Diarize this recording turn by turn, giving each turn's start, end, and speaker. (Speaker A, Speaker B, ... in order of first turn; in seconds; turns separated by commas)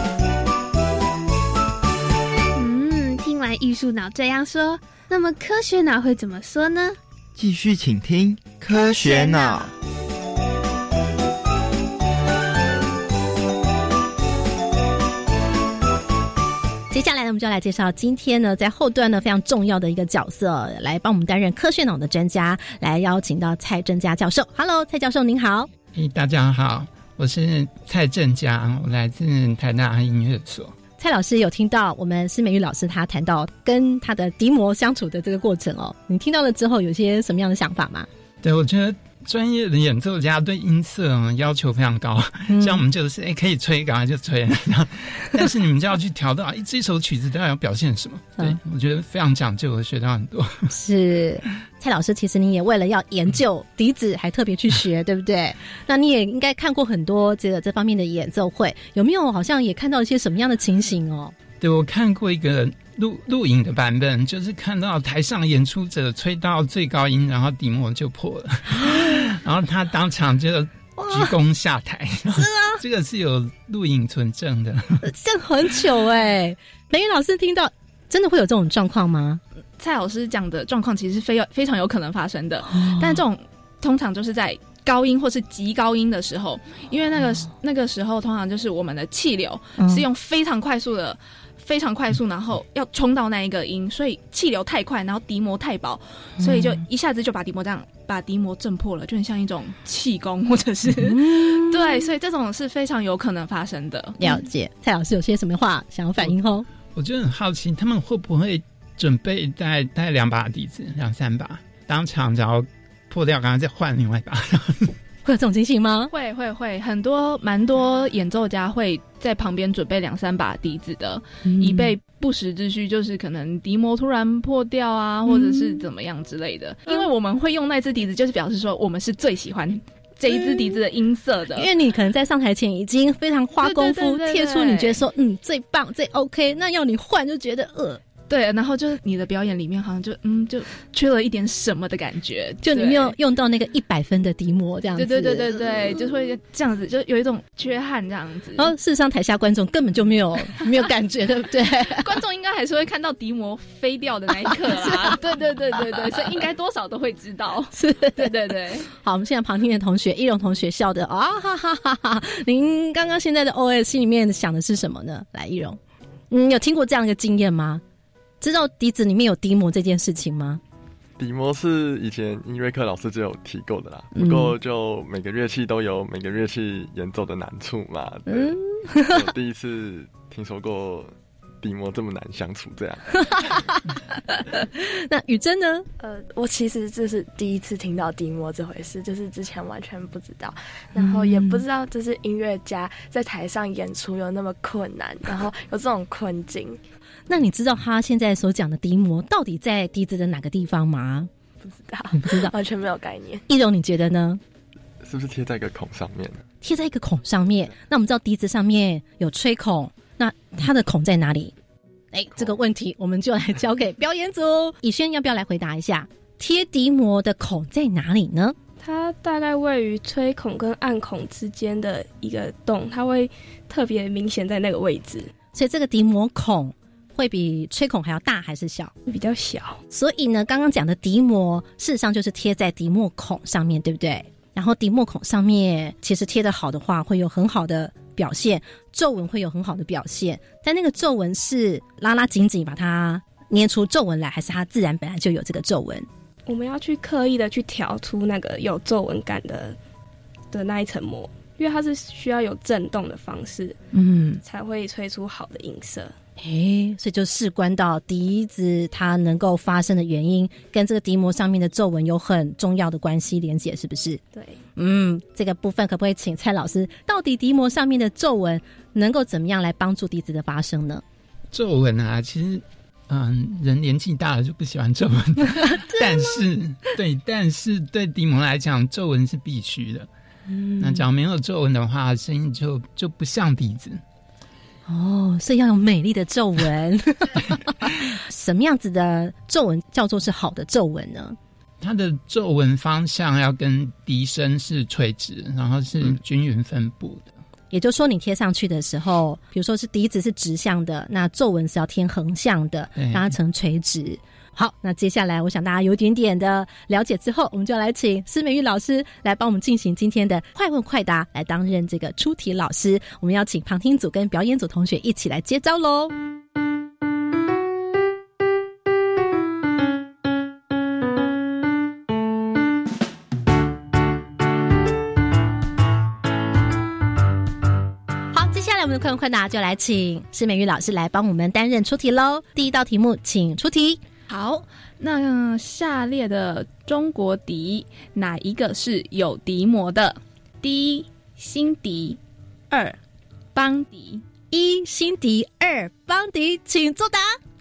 Speaker A: 2.5-7.0, Speaker B: 7.3-9.7, Speaker A: 8.7-9.7, Speaker C: 16.9-25.7, Speaker D: 25.9-30.7, Speaker C: 31.0-38.1, Speaker D: 38.4-50.7, Speaker C: 42.5-42.8, Speaker C: 50.7-61.4, Speaker D: 61.5-75.0, Speaker C: 68.8-69.2, Speaker C: 71.0-71.3, Speaker C: 72.3-72.8, Speaker C: 75.0-79.4, Speaker E: 79.8-104.4, Speaker C: 82.7-83.2, Speaker C: 89.8-90.0, Speaker C: 96.4-96.8, Speaker C: 100.9-102.0, Speaker C: 104.2-106.7, Speaker D: 106.9-114.9, Speaker C: 115.2-116.1, Speaker E: 116.1-131.7, Speaker C: 121.4-121.9, Speaker C: 125.2-125.8, Speaker C: 130.3-130.8, Speaker C: 131.5-138.0, Speaker E: 133.6-135.0, Speaker E: 138.3-143.1, Speaker C: 142.6-146.0, Speaker E: 144.9-148.7, Speaker C: 148.6-152.1, Speaker E: 151.9-158.9, Speaker C: 154.4-155.2, Speaker C: 157.7-165.8, Speaker C: 166.3-167.8, Speaker C: 168.4-170.6, Speaker F: 171.2-183.5, Speaker C: 174.1-174.5, Speaker C: 178.3-179.3, Speaker C: 183.2-185.9, Speaker G: 186.0-196.8, Speaker C: 190.9-191.6, Speaker C: 197.3-201.3, Speaker G: 201.6-203.4, Speaker C: 202.1-202.5, Speaker C: 203.5-204.4, Speaker F: 205.0-206.4, Speaker C: 206.6-211.5, Speaker C: 212.1-218.6, Speaker H: 218.8-225.3, Speaker C: 225.5-228.9, Speaker H: 229.1-229.8, Speaker C: 229.9-246.1, Speaker H: 246.4-249.8, Speaker H: 250.5-253.8, Speaker C: 253.9-254.4, Speaker H: 254.4-256.1, Speaker C: 256.4-264.2, Speaker H: 264.3-264.6, Speaker C: 264.8-271.0, Speaker D: 271.5-280.1, Speaker C: 280.5-281.0, Speaker D: 280.8-284.0, Speaker C: 284.9-291.4, Speaker D: 291.8-297.3, Speaker C: 297.7-316.1, Speaker D: 303.0-303.3, Speaker C: 328.3-334.0, Speaker E: 334.3-343.0, Speaker E: 343.5-344.2, Speaker C: 344.5-347.4